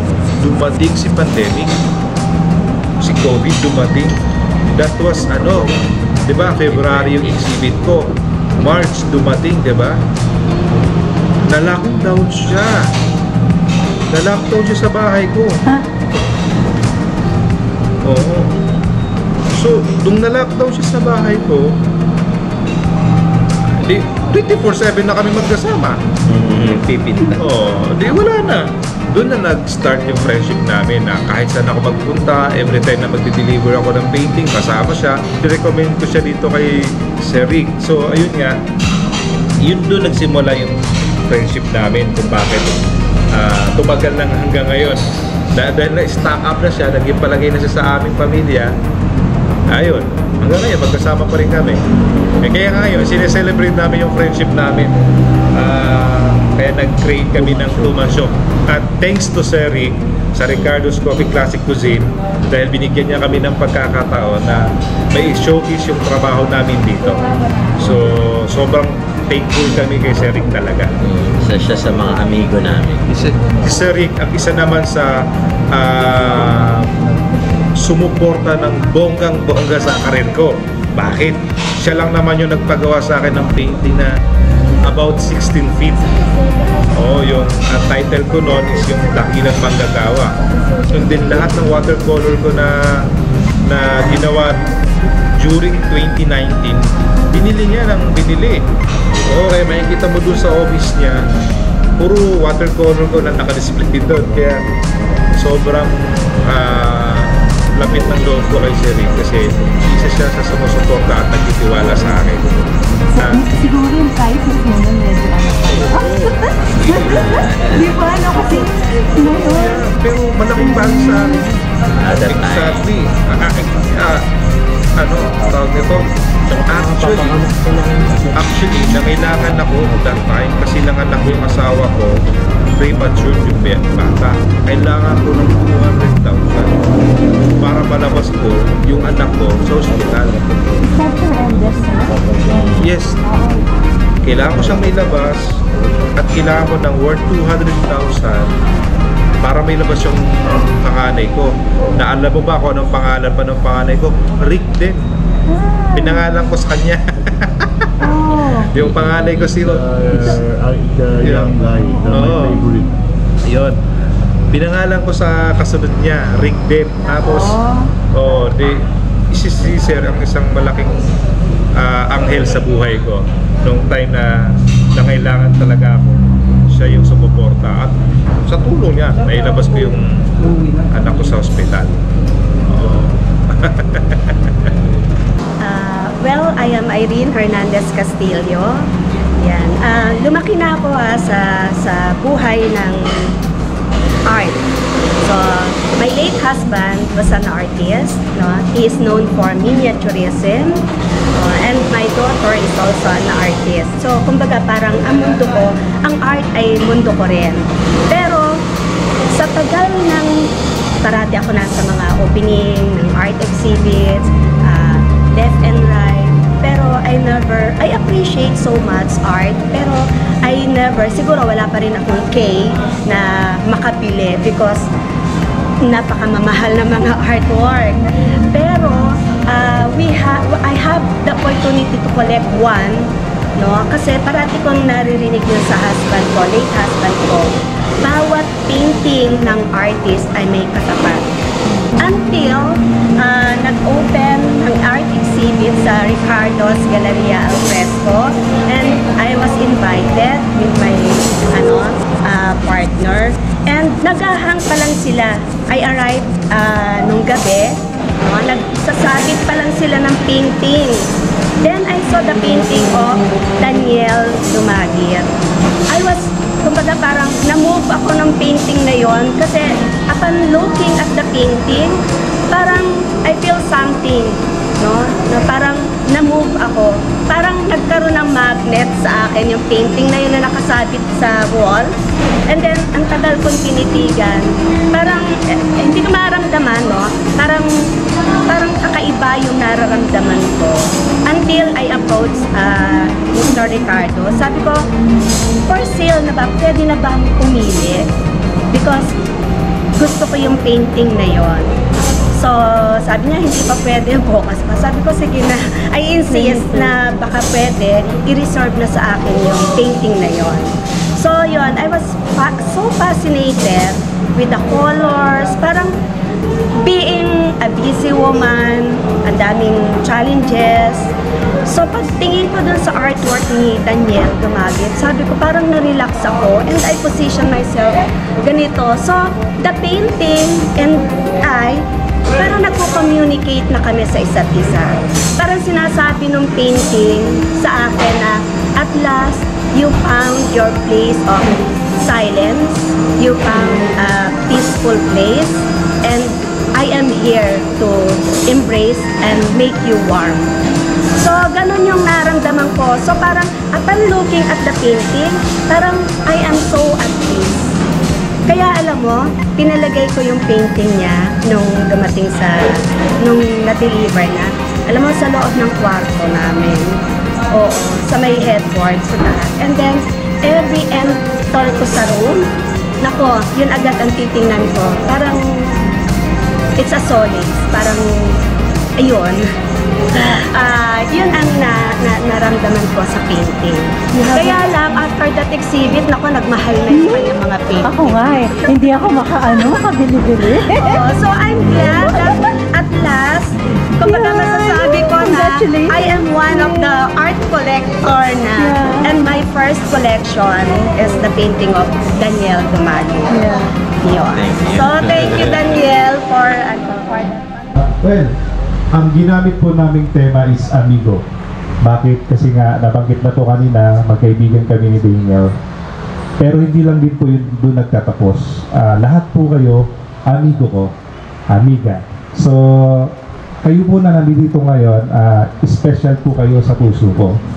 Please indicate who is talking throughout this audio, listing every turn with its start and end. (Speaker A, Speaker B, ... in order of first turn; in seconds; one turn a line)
Speaker A: 0.4-1.7
Speaker A: 3.0-4.2
Speaker A: 4.8-5.7
Speaker A: 6.2-10.0
Speaker B: 6.7-7.4
Speaker A: 11.4-12.9
Speaker A: 14.1-15.6
Speaker A: 18.0-18.5
Speaker A: 19.5-21.7
Speaker A: 23.8-26.0
Speaker B: 26.2-27.4
Speaker A: 27.4-38.6
Speaker A: 39.6-42.8
Speaker A: 43.3-48.7
Speaker A: 49.7-51.8
Speaker A: 52.4-54.9
Speaker A: 55.5-67.2
Speaker A: 67.8-70.9
Speaker B: 71.0-73.2
Speaker A: 73.2-76.9
Speaker A: 77.8-84.1
Speaker A: 84.9-86.2
Speaker A: 87.0-90.3
Speaker A: 90.9-93.1
Speaker A: 93.7-94.6
Speaker A: 95.4-98.6
Speaker A: 99.3-101.2
Speaker A: 102.0-104.6
Speaker A: 105.4-112.6
Speaker A: 113.2-113.4
Speaker C: 113.2-119.9
Speaker B: 116.7-118.3
Speaker A: 119.4-121.4
Speaker B: 122.0-122.8
Speaker A: 122.0-124.3
Speaker A: 125.0-127.4
Speaker B: 126.5-128.2
Speaker A: 128.3-132.2
Speaker A: 132.8-136.9
Speaker A: 137.5-140.4
Speaker C: 140.8-143.7
Speaker A: 142.8-143.2
Speaker A: 144.2-145.6
Speaker A: 146.2-148.5
Speaker A: 149.4-155.0
Speaker C: 155.5-156.5
Speaker A: 155.9-157.7
Speaker C: 158.0-158.7
Speaker A: 158.6-160.4
Speaker B: 158.8-159.5
Speaker D: 158.8-162.9
Speaker A: 161.2-162.7
Speaker A: 163.4-163.8
Speaker A: 164.5-171.0
Speaker C: 167.2-167.9
Speaker A: 171.8-182.0
Speaker A: 182.6-184.7
Speaker E: 185.6-193.4
Speaker E: 194.3-194.6
Speaker E: 195.2-200.8
Speaker E: 201.3-208.5
Speaker E: 209.3-210.4
Speaker E: 211.0-224.9
Speaker E: 225.8-241.3
Speaker E: 242.0-261.1
Speaker E: 261.6-265.3
Speaker E: 265.9-272.0
Speaker E: 272.5-281.9
Speaker E: 282.5-287.7
Speaker E: 288.5-294.8
Speaker E: 295.7-298.1
Speaker E: 298.7-299.1
Speaker E: 300.0-301.8
Speaker E: 302.3-316.0
Speaker C: 306.3-307.0
Speaker E: 316.8-321.1
Speaker E: 321.6-331.9
Speaker E: 332.4-350.5
Speaker E: 351.2-357.7
Speaker E: 358.5-367.0
Speaker E: 367.5-372.5
Speaker E: 373.0-375.8
Speaker E: 376.8-378.4
Speaker E: 379.0-379.5
Speaker E: 380.1-388.4
Speaker C: 384.1-384.6
Speaker C: 386.9-391.0
Speaker E: 390.7-403.4
Speaker C: 391.9-392.4
Speaker C: 394.0-397.0
Speaker C: 398.6-399.1
Speaker C: 403.3-403.7
Speaker E: 404.0-407.7
Speaker B: 404.4-405.6
Speaker A: 407.8-408.4
Speaker A: 408.9-411.2
Speaker A: 411.8-415.5
Speaker A: 416.4-420.9
Speaker A: 421.5-427.4